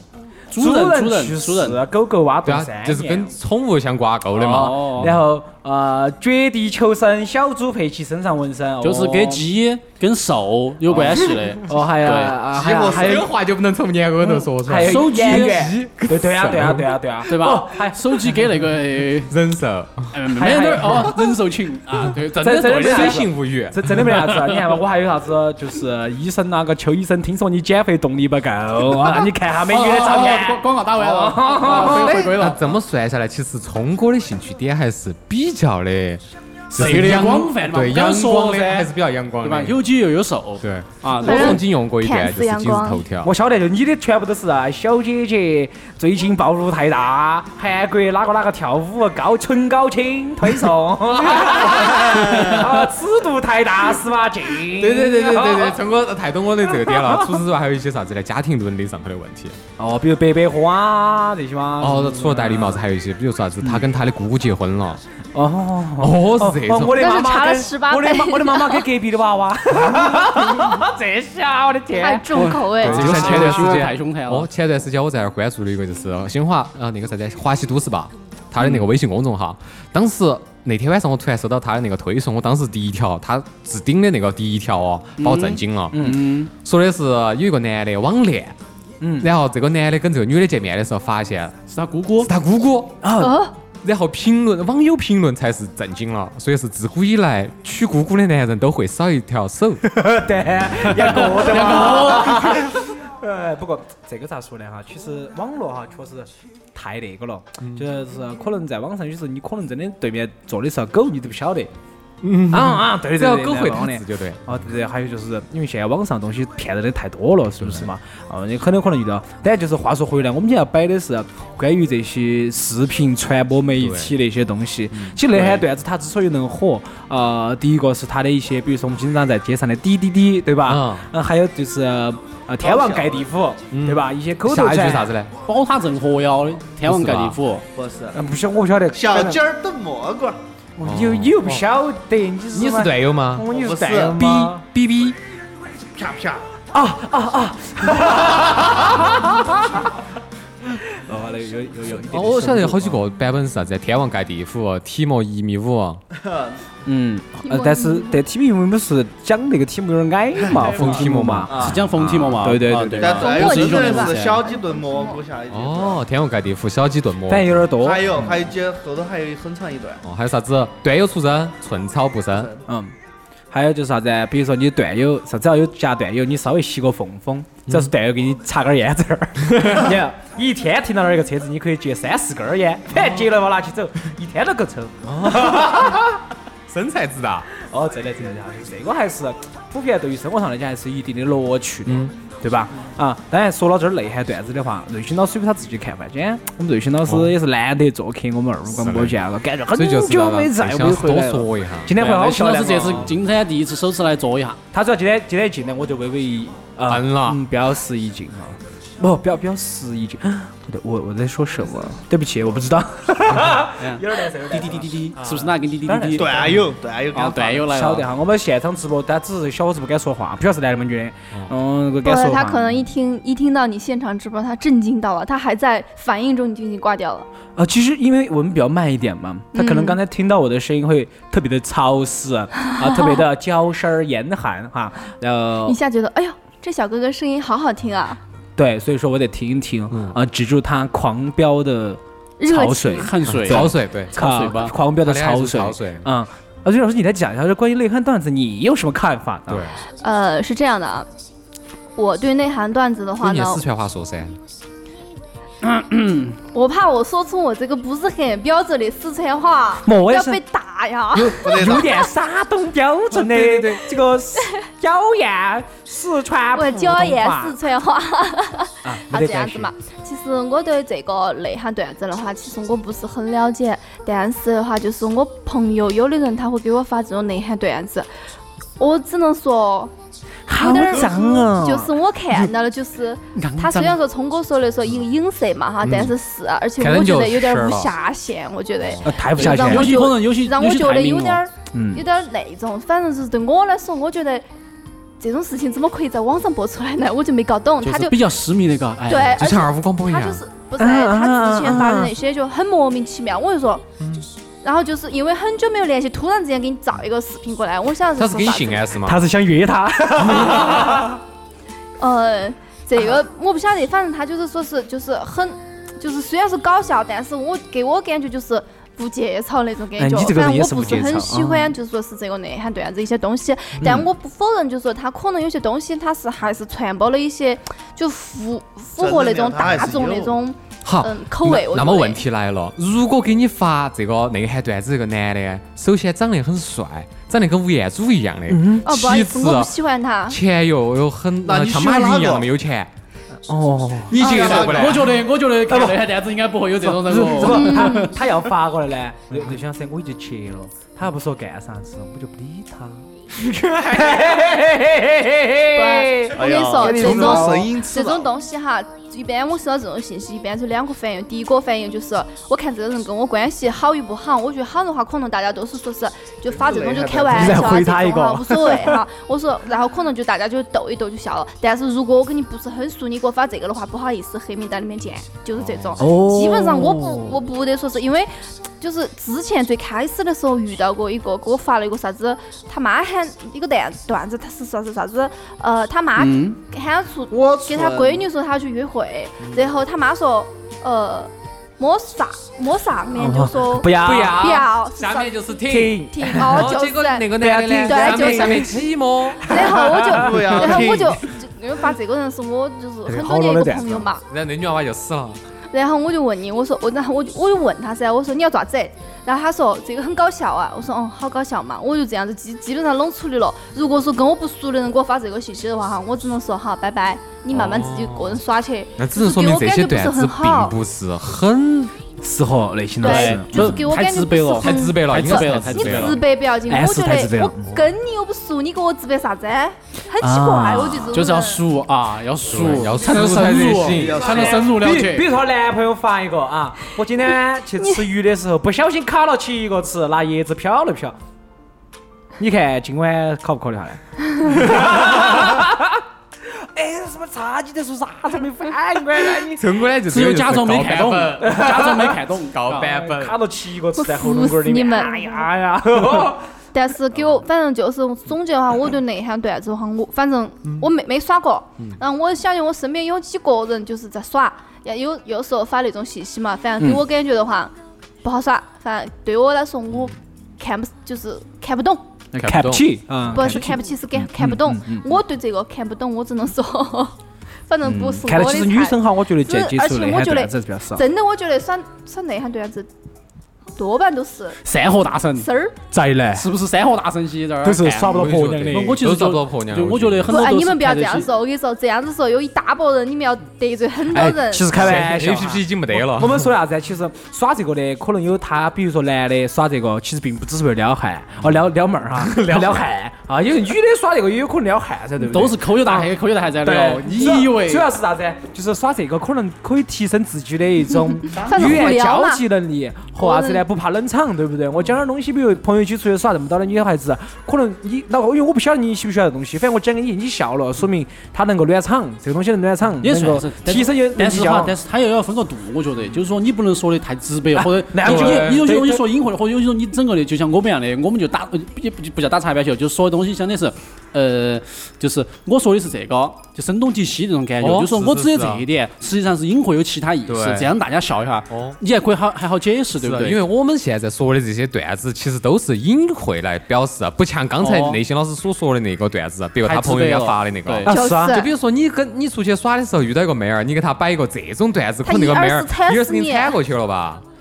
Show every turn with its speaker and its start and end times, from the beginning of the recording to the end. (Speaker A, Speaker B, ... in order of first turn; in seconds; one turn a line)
Speaker A: 0.5-1.8
Speaker B: 0.5-3.3
Speaker C: 2.4-5.2
Speaker B: 4.4-9.4
Speaker A: 4.5-5.1
Speaker A: 8.8-12.4
Speaker C: 10.9-11.4
Speaker B: 11.7-13.3
Speaker D: 12.5-13.2
Speaker C: 12.7-16.9
Speaker B: 14.3-18.0
Speaker A: 14.8-15.7
Speaker A: 17.3-19.3
Speaker C: 19.3-20.1
Speaker A: 20.1-23.2
Speaker B: 20.4-21.1
Speaker B: 22.4-32.3
Speaker C: 22.4-24.1
Speaker A: 24.0-24.6
Speaker A: 29.6-32.6
Speaker C: 31.7-39.8
Speaker A: 36.7-41.6
Speaker C: 40.6-43.3
Speaker E: 41.2-43.0
Speaker B: 43.2-55.8
Speaker C: 51.3-52.5
Speaker C: 54.7-59.6
Speaker B: 56.8-57.4
Speaker B: 59.8-62.8
Speaker C: 61.8-65.0
Speaker B: 65.3-72.5
Speaker C: 66.0-67.2
Speaker E: 66.9-68.9
Speaker E: 71.9-73.3
Speaker A: 72.3-74.5
Speaker C: 72.8-88.5
Speaker A: 85.2-86.5
Speaker B: 85.9-86.3
Speaker B: 89.0-89.3
Speaker C: 89.2-91.6
Speaker A: 91.7-92.3
Speaker C: 92.2-93.1
Speaker B: 93.0-93.5
Speaker E: 93.2-93.5
Speaker C: 93.8-99.8
Speaker B: 99.8-111.7
Speaker A: 101.1-102.7
Speaker C: 112.2-114.4
Speaker B: 112.5-135.1
Speaker C: 117.6-117.9
Speaker C: 123.8-124.1
Speaker C: 124.9-125.7
Speaker C: 130.6-131.1
Speaker D: 132.6-133.2
Speaker C: 133.7-135.3
Speaker A: 135.4-137.6
Speaker C: 136.8-137.4
Speaker D: 137.7-138.2
Speaker B: 138.1-139.4
Speaker D: 138.9-140.4
Speaker B: 140.8-144.6
Speaker C: 140.8-141.6
Speaker C: 142.5-143.5
Speaker D: 143.5-144.3
Speaker C: 144.2-145.2
Speaker D: 145.9-146.5
Speaker B: 146.7-149.9
Speaker B: 150.7-153.0
Speaker C: 152.1-156.0
Speaker D: 156.1-156.6
Speaker B: 156.8-161.5
Speaker E: 157.4-158.2
Speaker D: 160.5-161.8
Speaker C: 160.6-162.5
Speaker A: 161.5-164.4
Speaker B: 162.4-163.2
Speaker D: 163.0-166.0
Speaker E: 163.1-165.2
Speaker C: 165.5-167.7
Speaker B: 167.3-168.3
Speaker D: 167.8-170.0
Speaker C: 170.0-172.5
Speaker B: 172.7-172.9
Speaker B: 173.5-186.1
Speaker C: 179.4-179.9
Speaker C: 182.9-183.3
Speaker C: 185.0-186.1
Speaker C: 186.7-187.5
Speaker B: 187.6-203.1
Speaker C: 191.8-192.1
Speaker C: 197.1-197.3
Speaker C: 198.7-199.2
Speaker C: 199.7-202.0
Speaker A: 201.9-204.6
Speaker B: 204.7-216.6
Speaker C: 206.8-207.4
Speaker A: 213.7-216.5
Speaker D: 216.1-217.7
Speaker A: 217.1-218.1
Speaker B: 217.7-222.8
Speaker E: 222.0-227.3
Speaker B: 227.6-235.8
Speaker E: 229.5-230.0
Speaker E: 232.7-233.2
Speaker E: 235.7-238.2
Speaker B: 238.6-249.7
Speaker C: 239.9-240.2
Speaker E: 242.4-243.1
Speaker A: 242.9-244.7
Speaker C: 243.3-244.2
Speaker C: 244.9-246.1
Speaker C: 249.5-249.8
Speaker E: 250.0-251.1
Speaker E: 251.9-253.6
Speaker C: 253.2-254.4
Speaker A: 255.6-256.4
Speaker E: 256.5-261.8
Speaker B: 259.8-260.4
Speaker B: 261.1-267.6
Speaker D: 261.4-262.1
Speaker C: 263.1-263.9
Speaker E: 266.5-278.1
Speaker B: 268.8-269.7
Speaker E: 278.8-279.9
Speaker B: 280.5-281.9
Speaker E: 280.5-294.4
Speaker A: 283.4-284.0
Speaker C: 285.8-286.1
Speaker C: 286.8-287.9
Speaker B: 289.0-290.1
Speaker A: 289.4-291.4
Speaker B: 291.7-292.0
Speaker E: 295.2-298.2
Speaker A: 297.8-299.4
Speaker E: 299.1-303.8
Speaker C: 299.2-300.4
Speaker B: 300.8-302.1
Speaker C: 304.0-304.3
Speaker E: 304.6-308.9
Speaker C: 308.2-309.2
Speaker B: 309.0-311.2
Speaker C: 310.2-311.1
Speaker E: 312.0-332.2
Speaker B: 320.0-321.8
Speaker D: 329.0-330.4
Speaker C: 330.8-339.7
Speaker B: 338.5-338.9
Speaker E: 338.8-340.4
Speaker C: 340.3-342.9
Speaker D: 341.4-342.5
Speaker B: 343.5-344.6
Speaker C: 344.1-345.1
Speaker E: 344.2-344.7
Speaker A: 344.2-348.1
Speaker D: 344.3-345.0
Speaker B: 345.7-346.0
Speaker B: 346.8-353.1
Speaker E: 347.4-348.1
Speaker C: 353.4-354.2
Speaker B: 353.7-357.7
Speaker E: 355.7-398.8
Speaker D: 356.3-358.3
Speaker D: 366.5-367.8
Speaker B: 367.3-369.0
Speaker C: 375.5-376.0
Speaker B: 376.0-377.4
Speaker A: 386.2-386.6
Speaker B: 387.3-388.2
Speaker C: 389.4-389.7
Speaker B: 393.1-394.6
Speaker C: 393.9-399.5
Speaker B: 395.7-396.7
Speaker B: 397.3-398.8
Speaker B: 399.4-401.0
Speaker E: 399.4-404.2
Speaker D: 400.1-401.2
Speaker B: 403.1-404.0
Speaker C: 404.2-405.4
Speaker E: 405.7-420.8
Speaker C: 417.5-418.4
Speaker C: 419.0-421.9
Speaker B: 422.2-423.8
Speaker E: 423.0-431.6
Speaker A: 423.0-426.2
Speaker C: 424.6-426.2
Speaker B: 426.7-427.7
Speaker B: 430.2-431.1
Speaker A: 431.1-435.3
Speaker C: 432.5-434.5
Speaker D: 433.7-434.8
Speaker B: 434.4-441.1
Speaker B: 442.4-449.6
Speaker C: 444.6-445.4
Speaker C: 449.5-453.4
Speaker A: 450.1-452.9
Speaker B: 451.4-452.2
Speaker B: 452.7-456.4
Speaker E: 454.0-455.4
Speaker E: 456.7-472.1
Speaker B: 466.8-467.0
Speaker C: 472.3-473.5
Speaker B: 472.3-475.1
Speaker E: 473.3-477.1
Speaker E: 477.7-482.9
Speaker B: 477.8-481.0
Speaker E: 483.8-484.6
Speaker A: 484.6-485.5
Speaker E: 485.4-485.8
Speaker B: 485.9-486.5
Speaker A: 486.3-488.1
Speaker B: 487.6-489.0
Speaker C: 488.0-490.4
Speaker A: 488.7-491.3
Speaker E: 490.3-494.8
Speaker C: 494.1-496.5
Speaker B: 494.3-506.1
Speaker C: 502.1-502.9
Speaker A: 505.2-507.9
Speaker B: 506.6-524.8
Speaker E: 511.3-512.4
Speaker E: 513.2-513.6
Speaker A: 523.0-543.4
Speaker B: 527.8-529.0
Speaker C: 528.0-528.6
Speaker C: 537.6-538.6
Speaker C: 540.3-540.7
Speaker C: 541.5-541.8
Speaker C: 543.0-557.2
Speaker A: 547.6-548.0
Speaker A: 549.6-550.9
Speaker B: 550.9-551.4
Speaker E: 550.9-551.5
Speaker E: 555.0-556.6